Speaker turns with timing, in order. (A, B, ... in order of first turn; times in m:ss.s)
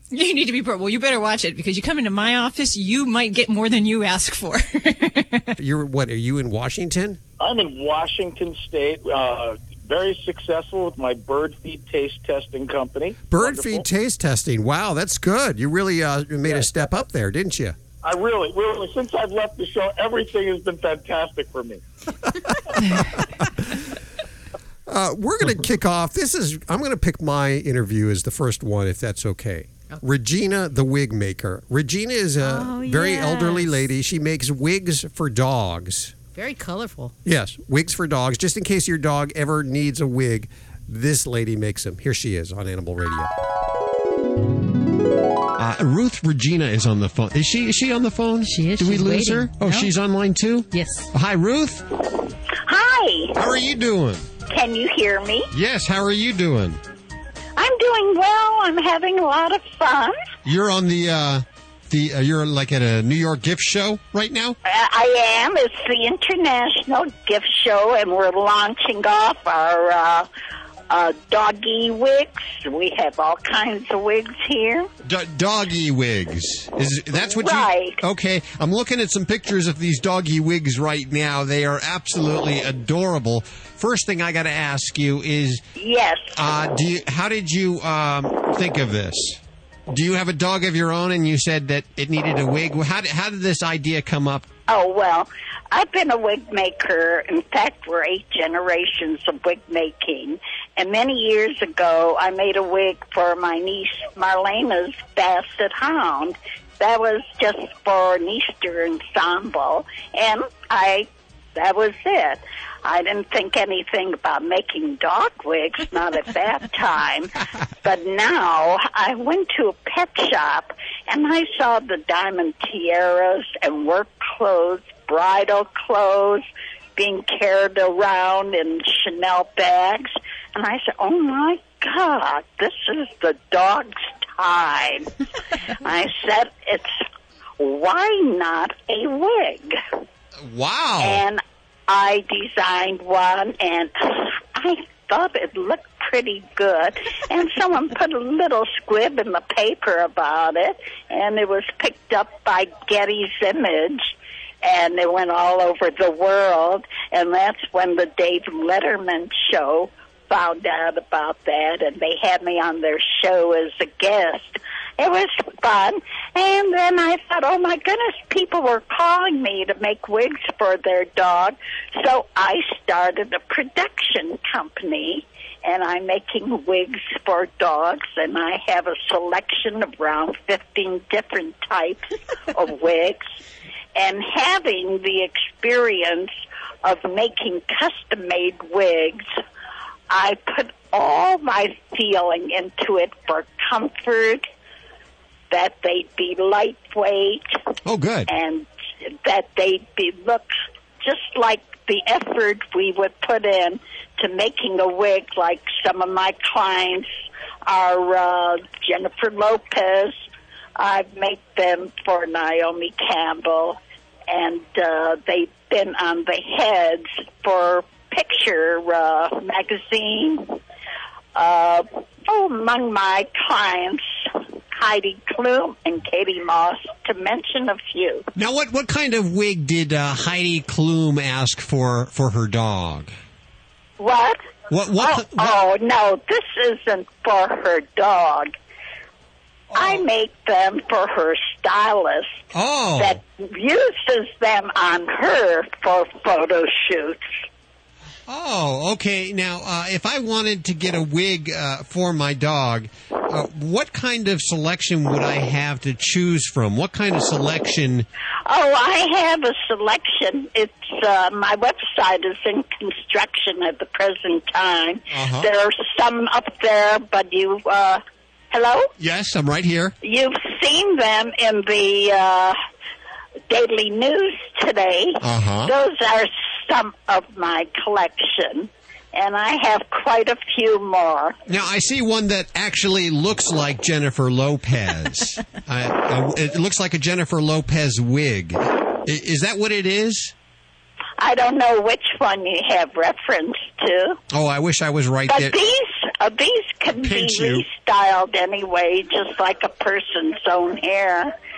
0:00.1-0:05.5 A
0:05.6-0:07.2 B
0:07.4-0:13.9 C
0:13.3-0:17.8 B
0:16.4-0:17.0 C
0:18.0-0:21.8 C
0:22.5-0:23.5 B
0:24.9-0:36.1 B
0:32.4-0:33.9 D
0:36.3-0:37.1 D
0:37.2-0:43.3 B
0:45.6-0:51.8 B
0:48.4-0:49.9 D
0:50.7-0:51.1 D
0:52.6-0:53.4 E
0:53.4-0:54.2 B
0:54.5-0:55.5 E
0:55.5-0:56.8 B
0:57.6-1:00.2 E
1:00.4-1:04.6 B
1:04.6-1:10.3 E
1:10.9-1:14.9 E
1:15.0-1:25.6 B
1:17.2-1:18.0 E
1:25.8-1:26.3 E
1:26.4-1:34.4 B
1:34.7-1:57.3 E
1:57.8-2:15.1 E
2:15.8-2:17.0 E
2:17.6-2:19.7 E
2:20.4-2:21.2 B
2:21.0-3:03.3 E
3:04.0-3:06.3 E
3:06.8-3:09.3 E
3:10.1-3:14.4 E
3:15.5-3:17.5 E
3:17.8-3:18.3 B
3:18.3-3:20.5 E
3:21.0-3:27.1 E
3:27.7-3:30.2 E
3:30.8-3:33.8 E
3:34.3-3:40.6 E
3:41.3-3:48.2 E
3:48.4-3:53.1 B
3:54.0-3:54.4 E
3:54.7-3:55.6 B
3:55.0-3:58.5 E
3:59.7-4:00.0 B
3:59.8-4:02.3 E
4:02.5-4:03.2 B
4:03.0-4:07.2 E
4:08.3-4:18.1 B
4:18.5-4:28.0 E
4:25.1-4:25.5 B
4:28.5-4:28.9 E
4:29.0-4:29.9 B
4:30.0-4:32.6 E
4:33.5-4:41.4 E
4:35.2-4:35.7 B
4:41.5-4:50.3 B
4:51.2-4:54.2 E
4:54.3-4:55.6 B
4:55.3-5:01.3 E
4:57.0-4:57.6 B